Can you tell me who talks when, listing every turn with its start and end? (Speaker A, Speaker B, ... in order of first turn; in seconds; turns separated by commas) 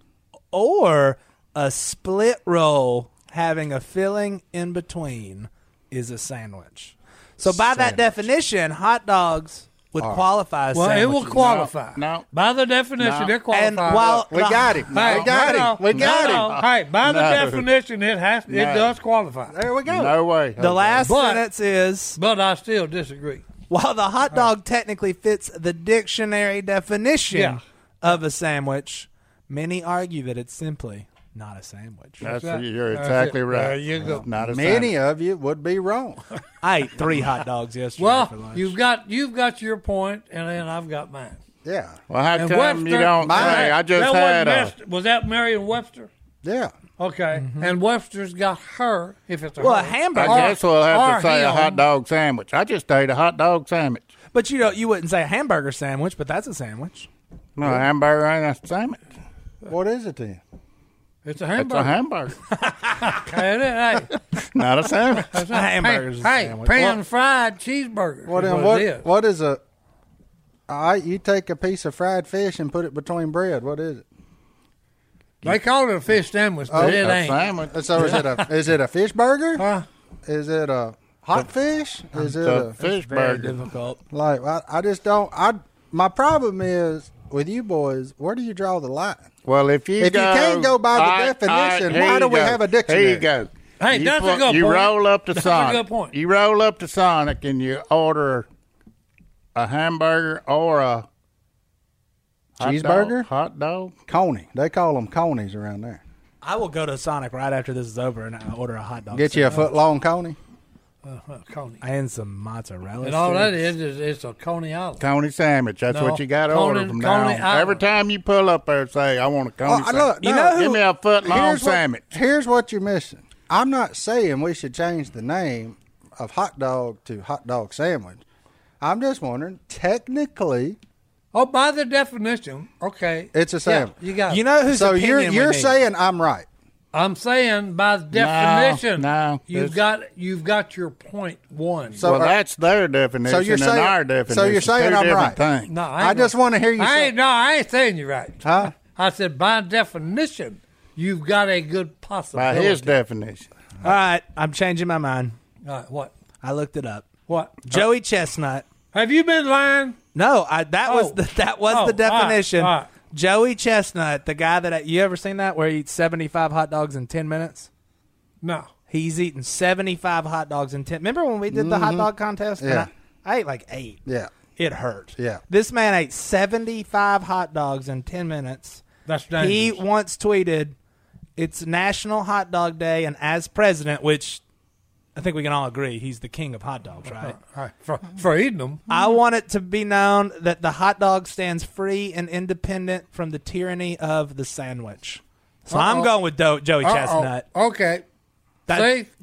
Speaker A: 0.5-11.4, Speaker B: 7.4-8.1, Speaker B: 10.0-10.2, Speaker C: 10.7-14.2, Speaker D: 11.3-12.2, Speaker D: 13.0-13.3, Speaker A: 13.5-14.9, Speaker B: 14.3-16.6, Speaker C: 14.9-19.6, Speaker D: 14.9-17.7, Speaker D: 18.5-19.0, Speaker B: 19.5-20.1, Speaker D: 19.9-21.0, Speaker A: 20.6-22.2, Speaker C: 21.0-21.5, Speaker C: 22.2-23.4, Speaker A: 23.7-32.2, Speaker C: 27.3-27.6, Speaker D: 32.2-34.9, Speaker C: 32.4-34.2, Speaker B: 34.4-36.2, Speaker A: 36.6-38.7, Speaker C: 38.0-41.4, Speaker B: 41.6-42.0, Speaker D: 42.1-44.7, Speaker C: 42.4-46.1, Speaker B: 43.2-43.7, Speaker B: 46.4-46.7, Speaker C: 47.0-51.8, Speaker A: 47.4-47.7, Speaker A: 49.6-50.6, Speaker D: 50.1-54.1, Speaker A: 54.3-57.1, Speaker D: 57.6-59.0, Speaker B: 59.6-60.4, Speaker C: 61.2-62.0, Speaker D: 61.6-62.4, Speaker C: 62.6-64.2, Speaker D: 64.5-65.4, Speaker C: 65.2-69.1, Speaker A: 65.4-67.0, Speaker B: 68.2-69.6, Speaker B: 70.7-74.0, Speaker C: 75.4-78.5, Speaker B: 76.7-77.0, Speaker D: 76.7-77.8, Speaker B: 77.6-79.7, Speaker C: 79.6-79.8, Speaker B: 80.2-82.7, Speaker D: 82.2-83.6, Speaker A: 82.8-84.0, Speaker B: 84.1-89.3, Speaker D: 89.5-98.5, Speaker B: 90.0-93.3, Speaker C: 93.8-96.1, Speaker D: 99.5-101.1, Speaker D: 102.6-104.0, Speaker B: 102.6-103.3, Speaker B: 104.1-106.0, Speaker A: 106.4-109.7, Speaker B: 109.1-110.4, Speaker C: 111.0-111.8, Speaker A: 111.8-113.6, Speaker C: 113.0-115.0, Speaker D: 115.0-122.0, Speaker C: 115.9-117.8, Speaker B: 119.6-120.6, Speaker A: 120.2-120.8, Speaker B: 121.2-128.2, Speaker B: 128.8-130.8, Speaker C: 131.3-134.4, Speaker B: 133.3-133.9, Speaker A: 134.3-135.8, Speaker B: 134.7-136.5, Speaker C: 136.9-142.1, Speaker D: 138.1-139.8, Speaker B: 142.0-142.3, Speaker D: 142.0-145.7, Speaker B: 143.3-145.4, Speaker C: 145.7-152.9, Speaker B: 146.0-147.1, Speaker B: 148.4-148.7, Speaker D: 152.3-153.5, Speaker A: 153.8-155.4, Speaker C: 155.6-156.1, Speaker A: 156.4-157.1, Speaker C: 157.3-157.6, Speaker A: 157.6-158.7, Speaker C: 158.9-160.0, Speaker A: 160.1-167.7, Speaker C: 160.9-162.9, Speaker C: 168.4-168.7, Speaker A: 168.9-174.0, Speaker B: 171.5-172.1, Speaker B: 172.6-172.9, Speaker B: 174.1-174.3, Speaker A: 174.6-178.8, Speaker B: 175.2-175.4, Speaker C: 179.1-179.8, Speaker A: 179.4-180.8, Speaker A: 181.4-184.4, Speaker A: 185.1-187.4, Speaker C: 187.1-188.8, Speaker A: 188.9-197.4, Speaker C: 195.7-196.1, Speaker C: 196.8-198.0, Speaker C: 198.7-199.1